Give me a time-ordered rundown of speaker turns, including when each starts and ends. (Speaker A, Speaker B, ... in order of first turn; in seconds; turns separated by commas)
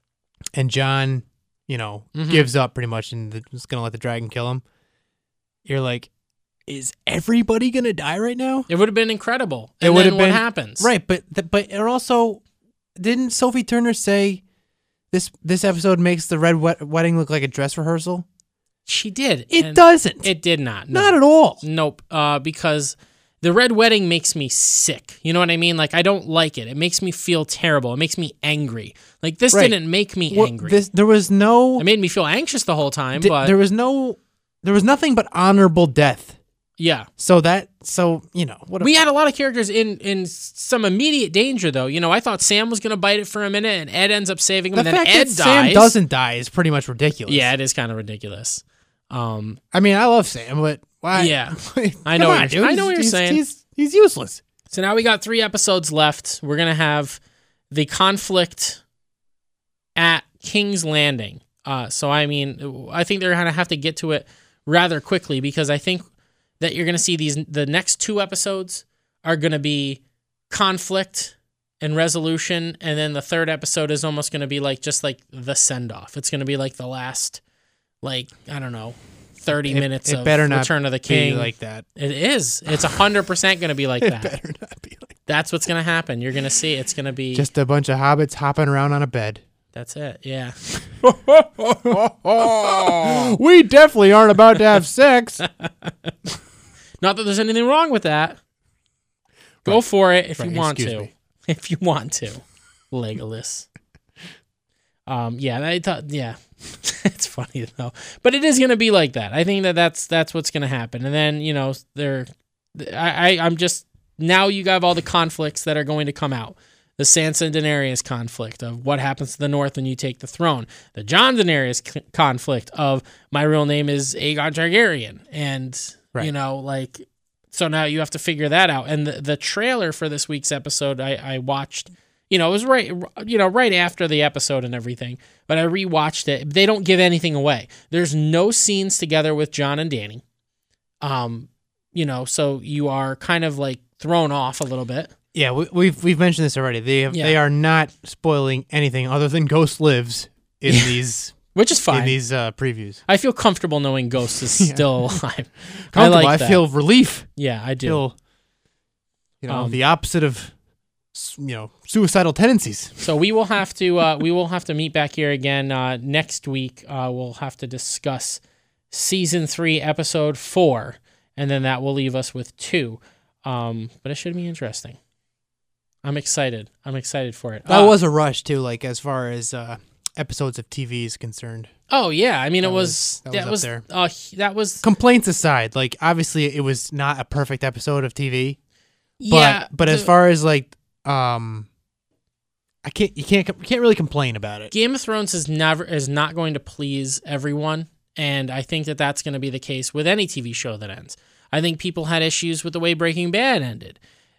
Speaker A: 0.5-4.6, Speaker B: 2.1-2.5, Speaker A: 5.7-6.1, Speaker A: 6.7-8.7, Speaker B: 8.7-10.9, Speaker A: 9.8-12.4, Speaker A: 13.0-14.4, Speaker A: 15.1-18.3, Speaker B: 18.9-30.8, Speaker A: 19.5-20.3, Speaker A: 20.9-21.6, Speaker A: 29.5-31.9, Speaker B: 31.8-33.5, Speaker A: 33.2-36.4, Speaker B: 36.8-37.1, Speaker A: 37.2-38.9, Speaker B: 38.8-46.0, Speaker A: 44.7-47.5, Speaker B: 47.3-49.6, Speaker A: 49.7-54.4, Speaker B: 51.1-53.4, Speaker B: 54.7-57.2, Speaker B: 57.7-58.8, Speaker B: 60.0-66.1, Speaker B: 66.6-77.4, Speaker B: 78.0-84.3, Speaker A: 79.5-81.9, Speaker A: 84.0-85.2, Speaker B: 85.3-87.5, Speaker A: 87.3-89.4, Speaker B: 89.7-93.2, Speaker A: 91.8-95.4, Speaker B: 95.4-95.9, Speaker B: 97.0-98.4, Speaker B: 99.7-103.7, Speaker A: 100.3-101.1, Speaker B: 105.1-140.2, Speaker B: 141.0-145.1, Speaker A: 145.3-153.0, Speaker B: 147.1-147.4, Speaker B: 150.7-151.0, Speaker B: 151.5-152.2, Speaker B: 153.1-156.7, Speaker A: 154.5-155.2, Speaker A: 155.9-157.3, Speaker B: 157.4-158.0, Speaker A: 157.8-158.2, Speaker A: 159.4-160.5, Speaker B: 159.5-159.8, Speaker A: 161.1-163.1, Speaker B: 163.0-175.0, Speaker B: 176.0-178.0, Speaker A: 177.7-181.7, Speaker B: 181.9-184.8, Speaker A: 182.6-183.8, Speaker A: 184.8-188.6, Speaker B: 189.2-190.1, Speaker A: 189.3-191.7, Speaker A: 192.8-194.7, Speaker B: 194.7-204.0